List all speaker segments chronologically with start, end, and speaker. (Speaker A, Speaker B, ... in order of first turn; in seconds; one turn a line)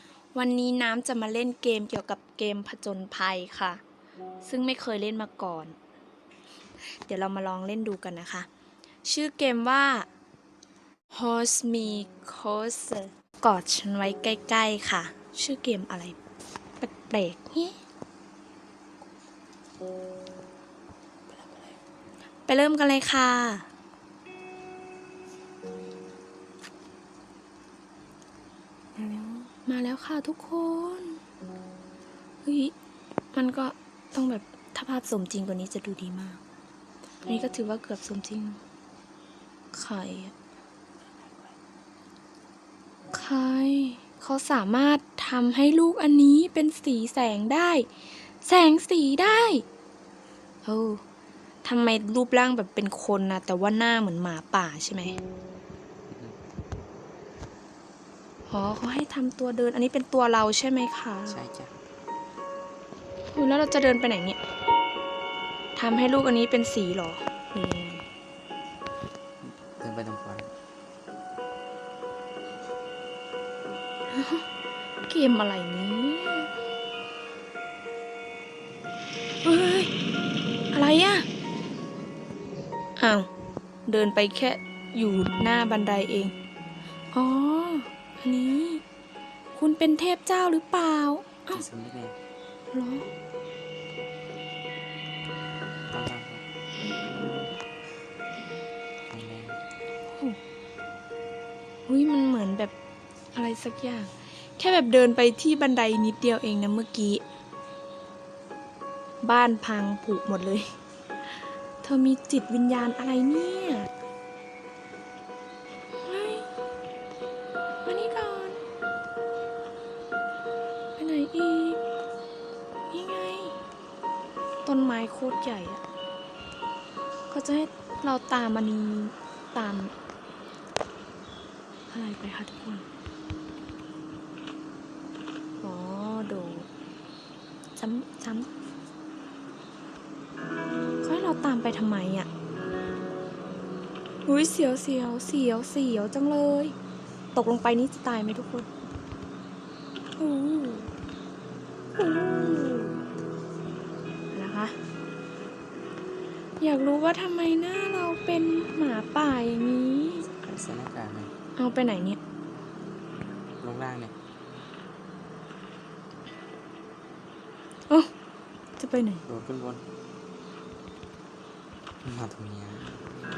Speaker A: 0.3-3.8
Speaker A: 4.4-5.8
Speaker A: 7.0-8.5
Speaker A: 9.0-10.1
Speaker A: 11.1-16.2
Speaker A: 16.8-17.8
Speaker A: 22.4-23.6
Speaker A: 28.9-31.2
Speaker A: 32.4-32.7
Speaker A: 33.3-36.4
Speaker A: 37.2-38.6
Speaker A: 39.7-40.3
Speaker A: 43.1-47.9
Speaker A: 48.4-49.6
Speaker A: 50.6-51.0
Speaker A: 51.6-55.1
Speaker B: 56.1-56.4
Speaker A: 58.5-61.4
Speaker B: 61.3-61.7
Speaker A: 63.3-64.4
Speaker A: 65.8-68.0
Speaker B: 69.4-70.5
Speaker A: 74.1-74.4
Speaker A: 75.0-76.5
Speaker A: 79.4-79.9
Speaker A: 80.7-81.2
Speaker A: 83.0-83.3
Speaker A: 83.9-86.3
Speaker A: 87.1-88.8
Speaker A: 89.5-91.6
Speaker B: 91.5-92.2
Speaker A: 92.7-93.1
Speaker B: 95.9-96.4
Speaker B: 99.1-99.6
Speaker A: 101.9-102.7
Speaker A: 103.3-107.2
Speaker A: 109.2-110.7
Speaker A: 111.8-113.9
Speaker A: 116.0-116.5
Speaker A: 117.8-118.6
Speaker A: 121.0-121.8
Speaker A: 122.9-123.5
Speaker A: 124.6-125.8
Speaker A: 127.3-129.9
Speaker A: 131.9-132.8
Speaker A: 135.6-136.7
Speaker A: 137.8-138.5
Speaker A: 141.0-142.3
Speaker A: 144.2-146.8
Speaker A: 147.3-148.7
Speaker A: 150.2-150.9
Speaker A: 152.0-152.9
Speaker A: 154.3-154.7
Speaker A: 156.6-160.3
Speaker B: 160.3-161.3
Speaker A: 161.6-162.2
Speaker B: 163.6-164.1
Speaker A: 168.8-169.2
Speaker B: 169.3-169.8
Speaker B: 172.0-173.0